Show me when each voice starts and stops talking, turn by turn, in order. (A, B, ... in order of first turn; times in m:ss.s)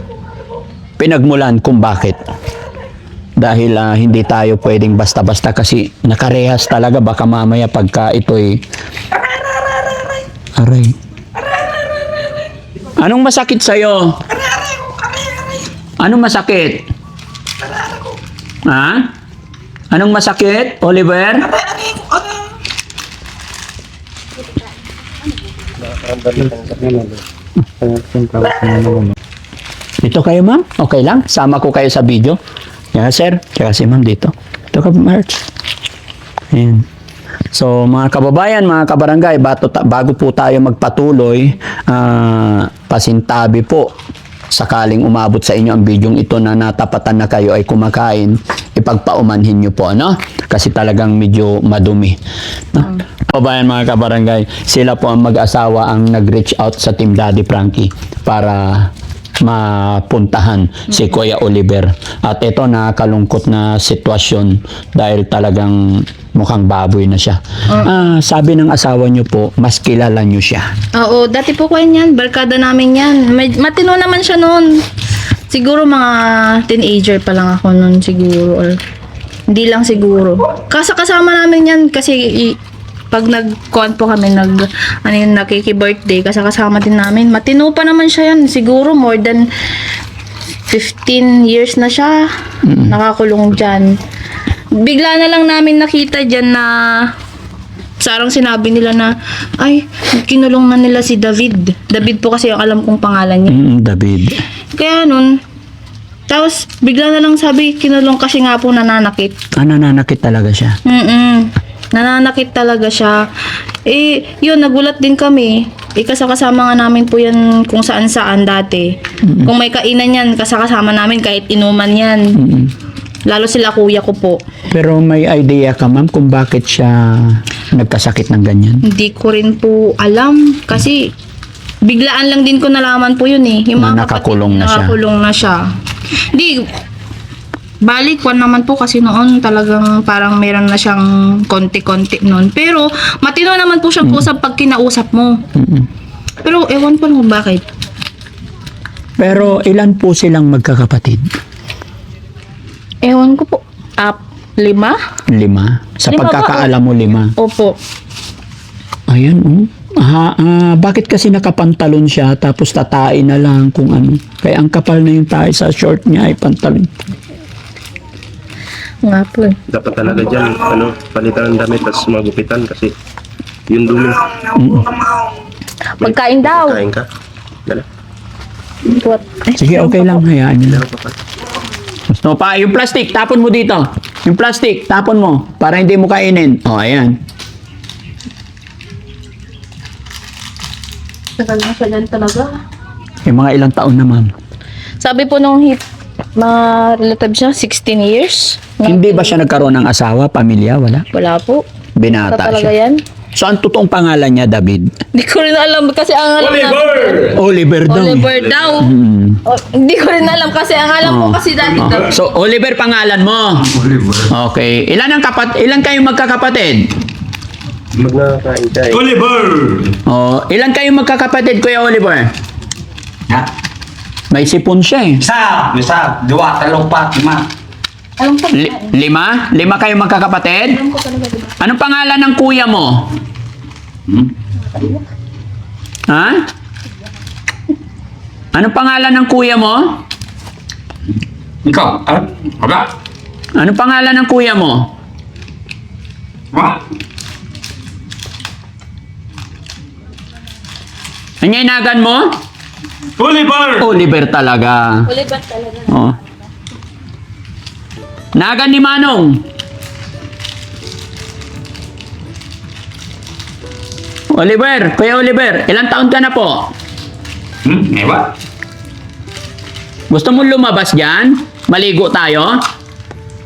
0:01.0-0:02.2 A
0:03.4-0:08.6 A
0:10.6-0:11.0 A
0:13.0-0:14.3 A
0:16.0-0:16.8 A
0:18.7-0:19.1 A
0:19.9-0:21.5 A
0:25.8-0:27.2 B
0:27.9-0:29.1 C
0:30.0-0:32.4 A
0:32.9-0:35.4 A
0:36.5-0:36.9 A
0:37.5-0:43.9 A
0:44.5-0:52.2 A
0:52.7-1:10.7 A
1:11.0-1:14.8 D
1:15.5-1:18.8 D
1:19.5-1:22.6 D
1:23.1-1:29.5 D
1:30.7-1:34.0 D
1:32.6-1:33.0 A
1:34.7-1:37.1 D
1:38.0-1:43.6 D
1:43.5-1:44.4 A
1:44.7-1:45.3 D
1:46.3-1:49.3 D
1:49.6-1:50.8 A
1:50.9-1:53.2 D
1:53.9-2:02.4 D
1:59.2-1:59.5 A
2:02.4-2:02.7 A
2:03.3-2:04.4 D
2:04.7-2:08.8 A
2:08.8-2:11.1 D
2:11.8-2:15.7 D
2:13.8-2:15.0 A
2:16.2-2:16.7 D
2:17.8-2:25.4 D
2:25.6-2:25.9 A
2:26.4-2:27.6 D
2:29.2-2:31.3 A
2:33.0-2:35.0 D
2:35.3-2:37.3 A
2:36.1-2:36.7 D
2:37.4-2:37.8 D
2:39.1-2:46.9 A
2:49.0-2:49.6 D
2:49.7-2:52.9 B
2:53.7-2:54.5 B
2:54.5-2:55.0 A
2:56.0-2:56.8 D
2:56.0-2:57.1 B
2:58.9-3:00.2 D
2:59.6-3:00.8 A
3:00.6-3:01.2 B
3:02.1-3:07.2 A
3:11.4-3:12.6 D
3:13.3-3:14.3 A
3:15.0-3:15.8 D
3:16.4-3:19.6 D
3:18.8-3:21.0 A
3:21.1-3:23.0 D
3:22.0-3:22.7 A
3:23.4-3:24.9 A
3:25.1-3:27.3 D
3:26.4-3:27.4 C
3:27.3-3:28.3 A
3:27.9-3:28.9 D
3:28.3-3:28.8 B
3:28.8-3:29.4 A
3:29.4-3:32.2 D
3:31.0-3:36.9 A
3:33.8-3:34.3 C
3:38.0-3:39.0 B
3:38.9-3:40.0 C
3:40.1-3:42.3 A
3:44.3-3:45.2 A
3:45.2-3:47.5 C
3:48.2-3:48.9 D
3:48.5-3:50.8 A
3:50.7-3:51.6 D
3:51.6-3:53.1 A
3:56.1-3:56.5 A
3:58.5-4:00.0 A
4:01.6-4:02.9 C
4:03.6-4:04.9 A
4:06.5-4:06.8 C
4:11.4-4:12.4 A
4:13.2-4:13.9 C
4:13.8-4:15.1 A
4:15.1-4:16.0 D
4:15.9-4:16.2 A
4:18.4-4:19.4 A
4:24.3-4:26.7 A
4:27.6-4:28.4 C
4:30.1-4:32.6 A